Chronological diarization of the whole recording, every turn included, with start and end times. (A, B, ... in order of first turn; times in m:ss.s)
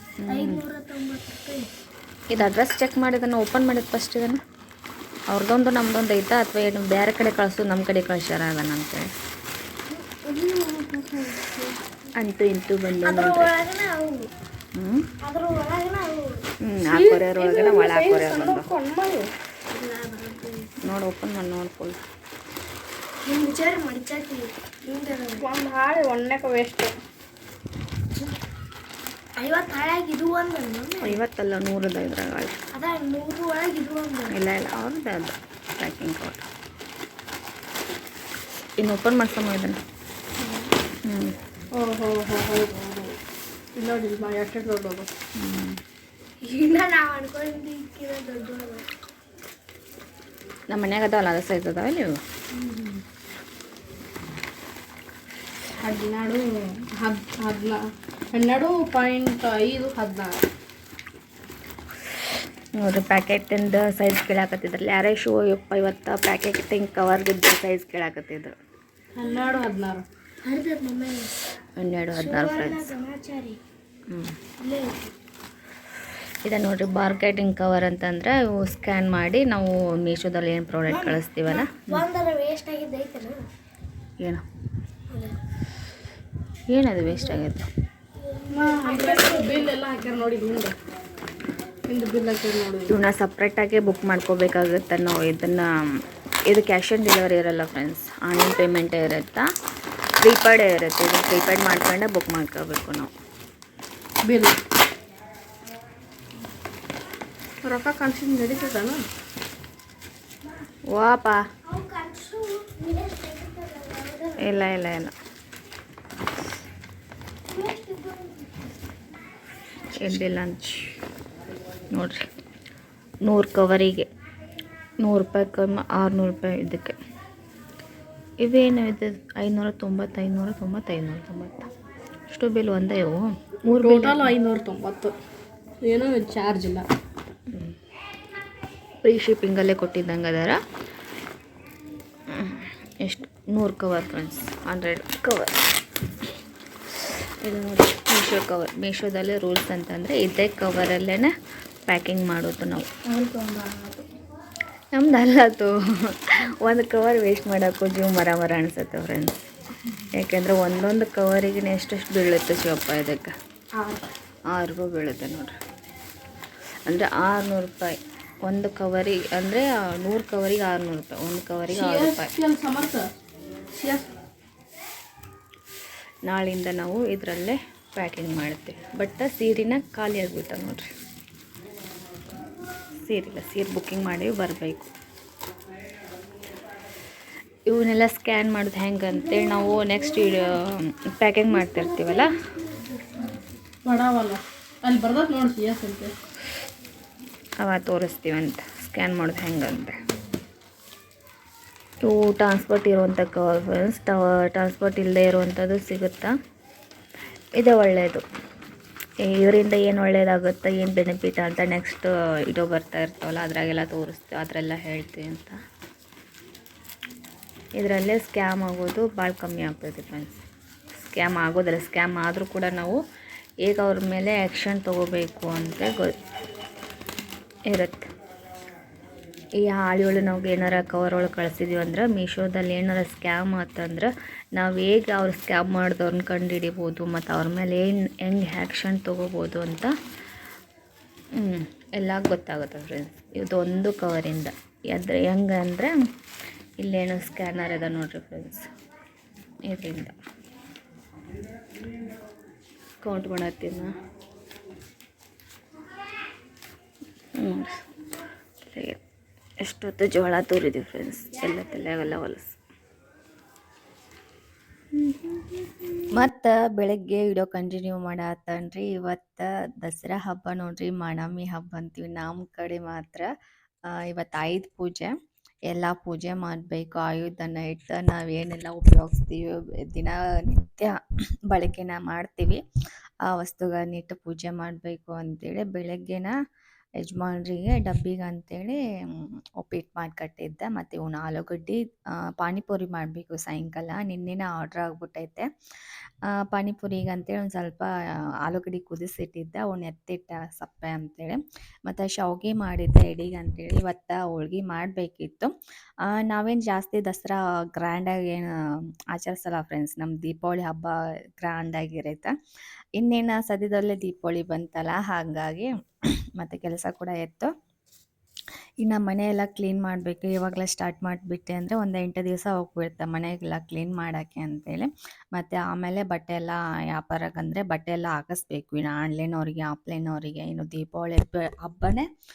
0:00.2-0:00.6 A
0:00.3-0:01.7 B
0:02.3-0:04.4 A
0:05.3-0:09.1 A
0:09.9-0:11.4 B
0:12.1-0:13.5 A
0:13.1-0:14.3 B
0:14.7-0:15.1 A
0:15.2-0:16.4 B
0:16.6-0:18.7 A
0:16.9-0:19.3 C
0:19.7-0:20.7 B
0:20.8-0:22.0 A
0:23.3-0:24.5 B
0:24.9-0:27.0 C
0:25.1-0:25.5 B
0:29.4-0:31.2 B
0:31.0-0:32.6 A
0:32.7-0:34.3 B
0:34.3-0:36.4 A
0:38.8-0:39.8 A
0:41.0-0:41.4 A
0:41.7-0:43.2 C
0:43.8-0:45.1 C
0:45.4-0:45.8 A
0:46.4-0:48.9 B
0:50.7-0:52.2 A
0:52.7-0:53.0 C
0:55.8-1:00.4 C
1:02.8-1:08.5 A
1:09.1-1:10.1 C
1:10.4-1:11.4 B
1:11.8-1:12.9 A
1:12.1-1:13.6 B
1:14.1-1:14.3 A
1:14.6-1:15.1 B
1:16.4-1:22.1 A
1:20.9-1:23.5 B
1:25.1-1:25.4 B
1:26.7-1:27.7 A
1:28.4-1:29.8 B
1:28.5-1:30.8 C
1:31.9-1:33.0 C
1:32.9-1:35.7 A
1:36.5-1:39.5 A
1:40.2-1:43.1 A
1:44.2-1:44.6 C
1:47.6-1:49.0 C
1:50.9-1:51.4 A
1:51.7-1:54.8 B
1:54.4-1:55.1 A
1:57.5-1:58.5 B
2:00.0-2:00.8 A
2:01.9-2:02.2 A
2:03.2-2:04.1 A
2:05.0-2:07.0 A
2:08.4-2:11.7 A
2:12.3-2:14.3 A
2:13.7-2:15.2 C
2:15.8-2:16.9 C
2:19.0-2:20.6 A
2:22.3-2:25.5 A
2:27.4-2:31.3 A
2:31.9-2:32.9 A
2:33.1-2:34.0 C
2:34.9-2:35.8 A
2:36.6-2:39.3 A
2:40.1-2:43.3 A
2:43.8-2:44.1 C
2:44.5-2:45.5 A
2:46.8-2:52.3 A
2:51.7-2:53.1 C
2:53.7-2:54.1 C
2:56.2-3:00.8 A
3:02.9-3:04.9 A
3:07.7-3:12.3 A
3:09.3-3:10.5 B
3:11.5-3:13.4 B
3:13.8-3:16.1 C
3:17.6-3:19.9 A
3:22.0-3:26.3 A
3:27.6-3:28.2 A
3:29.2-3:35.6 A
3:37.8-3:40.4 A
3:41.0-3:43.0 A
3:43.6-3:46.2 A
3:47.7-3:48.1 A
3:49.6-3:59.9 A
4:01.4-4:05.9 A
4:06.8-4:08.7 A
4:09.7-4:10.1 A
4:13.0-4:13.9 A
4:17.4-4:17.7 A
4:18.7-4:19.0 A
4:19.6-4:22.6 A
4:25.0-4:25.3 A
4:26.1-4:33.3 A
4:33.9-4:35.1 A
4:35.7-4:40.9 A
4:41.5-4:42.6 A
4:43.3-4:46.3 A
4:47.0-4:51.8 A
4:52.4-4:55.5 A
4:56.5-4:57.9 A
4:58.4-5:05.5 A
5:06.1-5:08.5 A
5:09.1-5:12.3 A
5:13.0-5:15.7 A
5:16.4-5:17.5 A
5:18.8-5:32.0 A